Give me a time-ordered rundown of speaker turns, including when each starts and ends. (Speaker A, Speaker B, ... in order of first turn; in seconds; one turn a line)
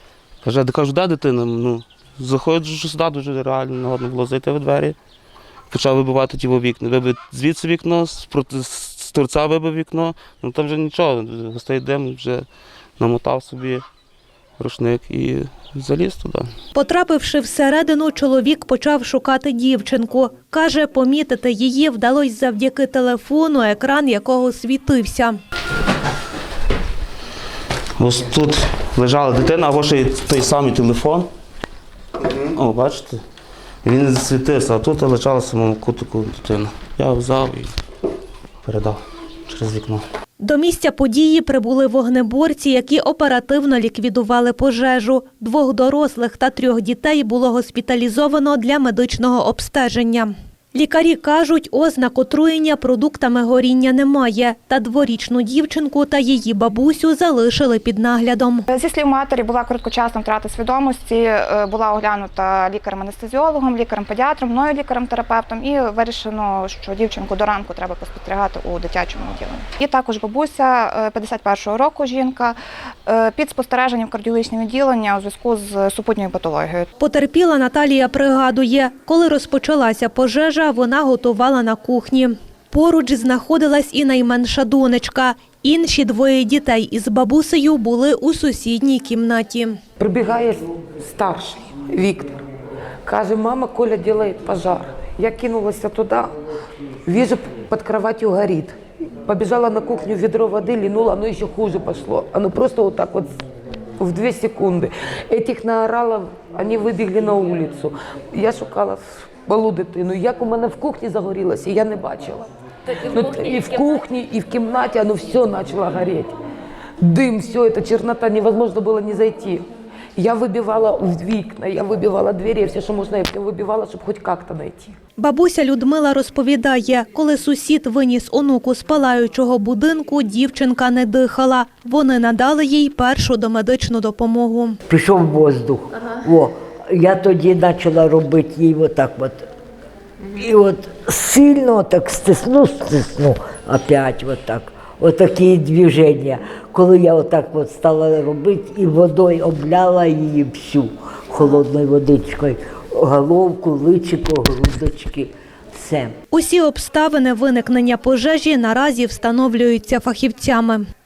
Speaker A: 0.4-5.0
Speaker A: 5.7-12.5
Speaker A: 13.0-13.8
Speaker A: 14.6-16.5
Speaker B: 16.7-25.4
Speaker A: 28.0-31.3
Speaker A: 32.2-33.2
Speaker A: 33.8-37.7
Speaker A: 38.6-40.0
Speaker B: 40.4-58.7
Speaker C: 58.7-76.9
Speaker B: 77.0-89.8
Speaker D: 90.0-92.4
Speaker D: 93.0-96.3
Speaker D: 97.1-103.4
Speaker D: 104.0-112.5
Speaker D: 113.0-116.4
Speaker D: 117.0-125.0
Speaker B: 125.2-134.8
Speaker E: 134.9-139.5
Speaker E: 140.3-156.1
Speaker B: 156.3-160.8